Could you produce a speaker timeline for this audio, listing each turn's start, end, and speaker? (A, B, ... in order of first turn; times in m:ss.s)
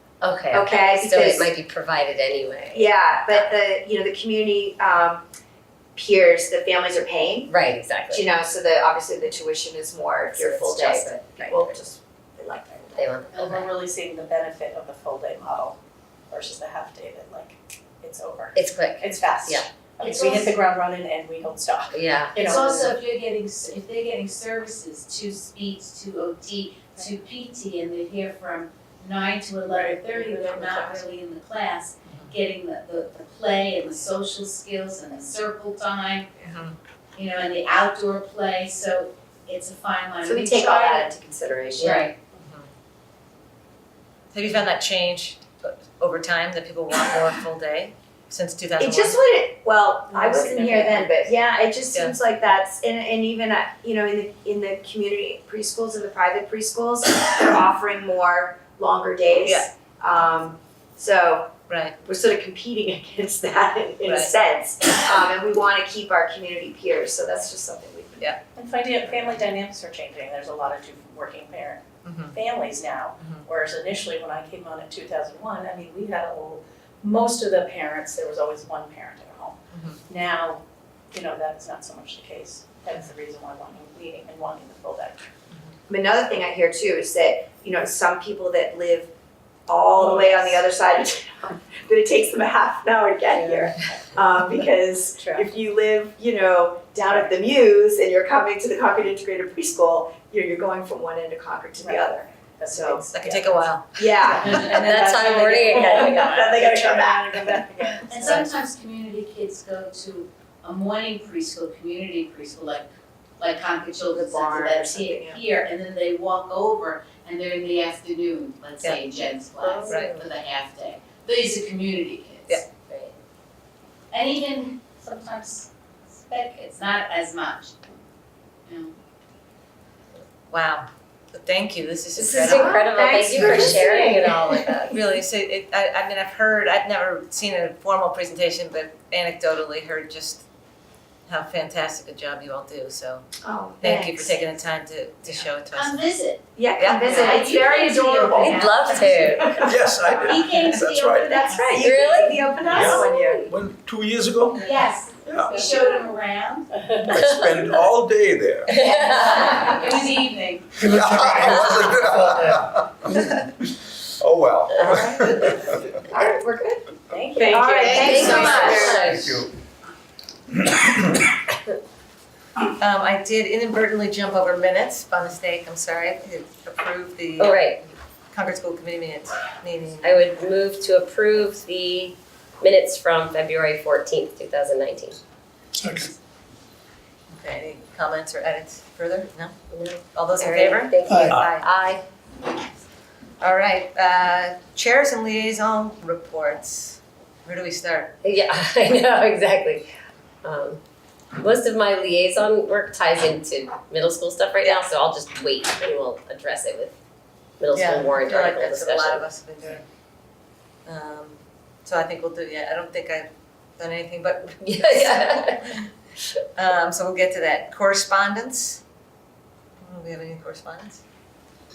0:00.2-0:03.5 A
0:00.5-0:01.5 B
0:02.7-0:05.2 B
0:05.9-0:07.5 B
0:07.5-0:08.3 A
0:08.1-0:13.2 B
0:10.3-0:11.7 A
0:13.0-0:13.7 A
0:13.3-0:15.8 C
0:16.3-0:22.9 C
0:18.5-0:19.7 A
0:20.0-0:20.5 D
0:21.9-0:22.4 A
0:22.4-0:36.3 D
0:29.7-0:30.4 C
0:32.1-0:32.3 E
0:36.4-0:36.8 E
0:37.2-0:41.1 D
0:40.2-0:42.0 B
0:41.8-0:42.1 A
0:41.8-0:42.1 D
0:42.3-0:42.7 E
0:44.3-0:49.2 E
0:48.8-1:01.5 B
0:50.2-0:50.6 E
0:50.5-0:51.1 A
1:01.7-1:02.0 E
1:02.0-1:08.3 B
1:04.0-1:04.3 E
1:08.6-1:19.6 C
1:12.0-1:12.4 E
1:19.7-1:20.0 E
1:20.1-1:25.2 C
1:25.9-1:29.1 B
1:29.7-1:43.0 B
1:29.9-1:30.6 C
1:33.3-1:33.9 A
1:35.2-1:35.4 A
1:41.8-1:48.5 C
1:43.1-1:43.9 E
1:44.0-1:44.9 B
1:44.4-1:44.8 D
1:44.7-1:45.2 E
1:44.8-1:46.7 A
1:46.6-1:47.0 B
1:48.1-2:02.6 D
1:54.1-1:55.4 B
1:59.6-2:00.3 A
1:59.9-2:00.1 E
2:02.8-2:03.2 A
2:04.1-2:07.8 D
2:08.7-2:08.9 D
2:10.5-2:20.5 E
2:12.1-2:15.0 A
2:12.3-2:14.7 B
2:21.3-2:23.3 E
2:23.4-2:24.5 B
2:23.8-2:26.1 E
2:25.7-2:26.4 D
2:26.6-2:29.8 B
2:26.8-2:27.4 E
2:27.0-2:29.5 D
2:28.4-2:29.6 A
2:29.6-2:31.5 F
2:30.2-2:31.9 D
2:31.2-2:33.5 B
2:31.7-2:33.4 A
2:32.7-2:35.7 F
2:34.6-2:36.7 D
2:37.1-2:38.8 F
2:37.1-2:37.4 A
2:38.7-2:39.8 A
2:38.8-2:40.7 D
2:40.8-2:45.9 F
2:44.8-2:45.6 A
2:46.1-2:46.6 B
2:47.1-2:49.2 C
2:47.4-2:49.1 E
2:47.5-2:49.0 B
2:48.1-2:49.3 A
2:49.0-2:49.5 F
2:52.8-3:00.3 E
2:57.4-2:57.8 A
3:00.0-3:05.2 A
3:07.3-3:09.6 E
3:09.7-3:12.0 A
3:10.1-3:12.0 E
3:11.1-3:11.5 F
3:13.4-3:18.2 E
3:18.2-3:19.9 A
3:20.4-3:20.8 A
3:21.4-3:26.9 A
3:24.6-3:24.9 E
3:27.6-3:29.2 A
3:27.7-3:29.8 E
3:30.8-3:33.3 E
3:33.8-3:35.9 E
3:34.6-3:35.8 A
3:36.6-3:38.8 E
3:39.8-3:41.0 E